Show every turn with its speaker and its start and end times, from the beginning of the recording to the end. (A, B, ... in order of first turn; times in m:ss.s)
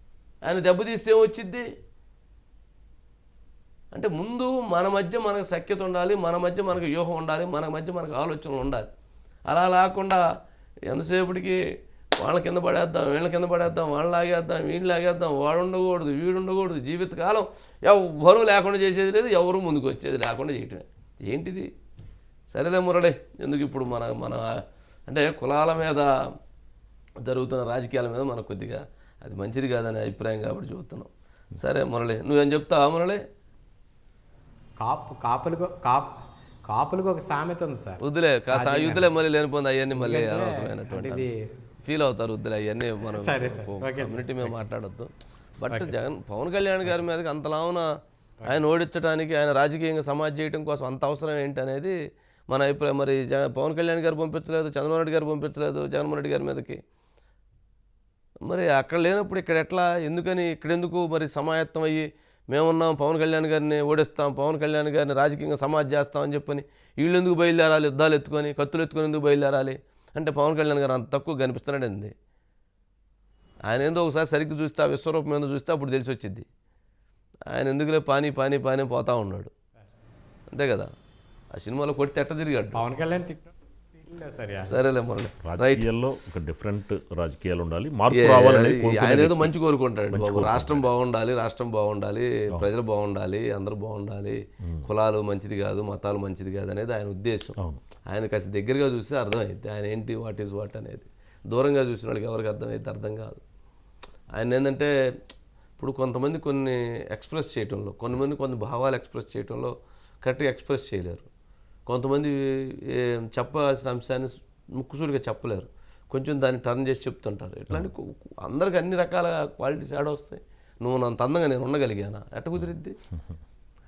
0:00.4-0:01.7 A
0:03.9-0:08.9 A
0:09.5-0:10.2 A
0:10.9-0:11.6 A
0:12.2-0:21.7 A
0:22.5-0:24.5 A
0:25.1-0:26.1 A
0:27.2-0:33.2 A
0:34.8-0:36.2 B
0:36.7-0:39.1 B
0:38.0-0:41.3 A
0:39.9-0:41.3 B
0:41.8-0:47.8 A
0:43.1-0:44.6 B
0:48.4-0:52.0 A
0:52.5-0:56.8 A
0:58.4-1:12.1 A
1:13.7-1:16.5 A
1:17.5-1:19.5 A
1:20.5-1:20.9 A
1:21.5-1:22.8 A
1:22.8-1:23.5 B
1:24.0-1:24.8 B
1:24.7-1:25.9 A
1:25.4-1:29.5 C
1:28.1-1:37.5 A
1:30.1-1:30.9 C
1:38.1-1:43.4 A
1:44.3-1:44.9 A
1:45.8-1:51.3 A
1:51.9-2:03.0 A